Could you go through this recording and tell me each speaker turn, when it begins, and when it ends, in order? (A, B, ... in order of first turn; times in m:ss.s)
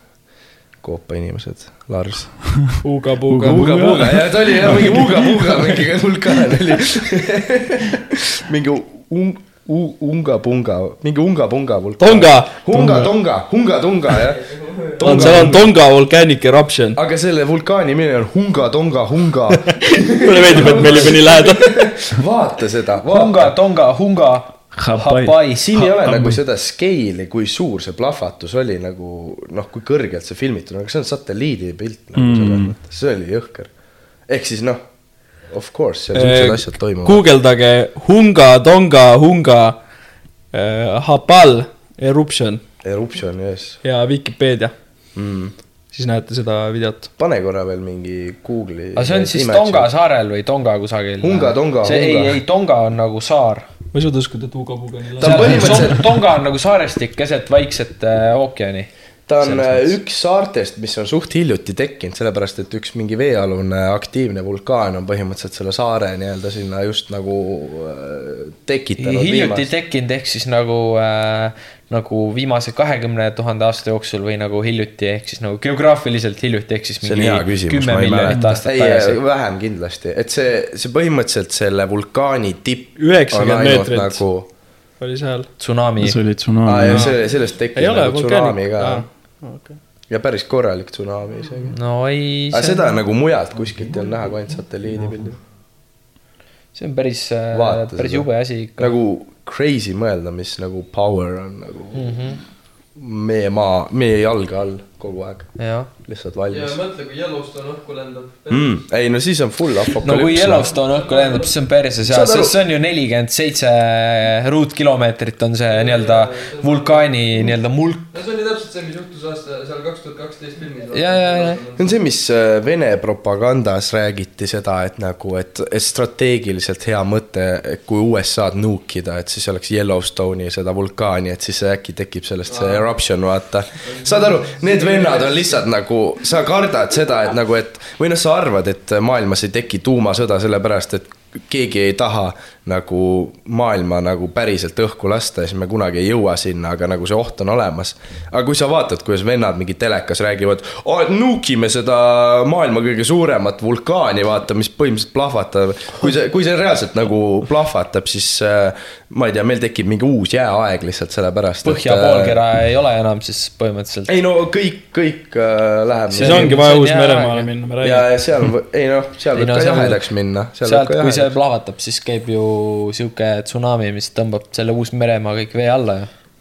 0:00.8-0:02.6 A
0:02.8-0:04.2 B
0:03.2-0:05.7 C
0:03.4-0:15.7 A
0:12.0-0:12.5 B
0:12.7-0:13.1 C
0:14.2-0:15.5 D
0:15.0-0:17.0 B
0:16.9-0:23.5 A
0:19.7-0:21.9 B
0:23.1-0:25.9 E
0:24.7-0:25.4 C
0:25.6-0:33.7 A
0:26.0-0:26.4 C
0:32.1-0:32.7 C
0:34.3-0:34.8 A
0:35.4-0:37.2 A
0:36.1-0:39.9 B
0:40.5-0:42.6 B
0:42.8-0:43.8 A
0:43.8-0:44.7 B
0:45.1-0:45.5 A
0:45.9-0:47.1 B
0:47.2-0:49.8 A
0:49.0-0:53.6 E
0:51.2-0:52.4 A
0:53.9-0:55.9 B
0:55.2-0:56.1 A
0:55.2-0:58.9 E
0:59.3-1:09.6 A
0:59.4-0:59.9 B
1:09.0-1:19.2 E
1:17.0-1:24.5 A
1:18.3-1:18.6 C
1:23.0-1:24.3 B
1:25.0-1:25.5 B
1:25.6-1:26.2 E
1:26.0-1:27.1 C
1:26.6-1:29.0 A
1:26.9-1:27.2 B
1:27.7-1:29.8 B
1:30.1-1:31.8 A
1:31.7-1:33.0 E
1:32.5-1:35.4 A
1:36.7-1:38.9 E
1:37.5-1:42.2 A
1:41.9-1:42.4 E
1:42.9-1:46.8 A
1:45.6-1:45.9 E
1:46.5-1:48.8 D
1:48.5-1:50.7 A
1:50.0-1:58.1 E
1:50.6-1:51.5 D
1:52.1-1:52.5 A
1:55.7-1:57.1 D
1:58.1-2:01.9 D
2:00.9-2:01.6 E
2:01.8-2:42.4 A
2:12.5-2:12.8 D
2:13.8-2:15.6 D
2:41.6-2:44.1 E
2:44.1-2:46.6 A
2:46.1-2:47.5 E
2:46.2-2:48.1 B
2:47.8-2:51.3 A
2:49.3-2:50.0 E
2:50.6-2:56.1 E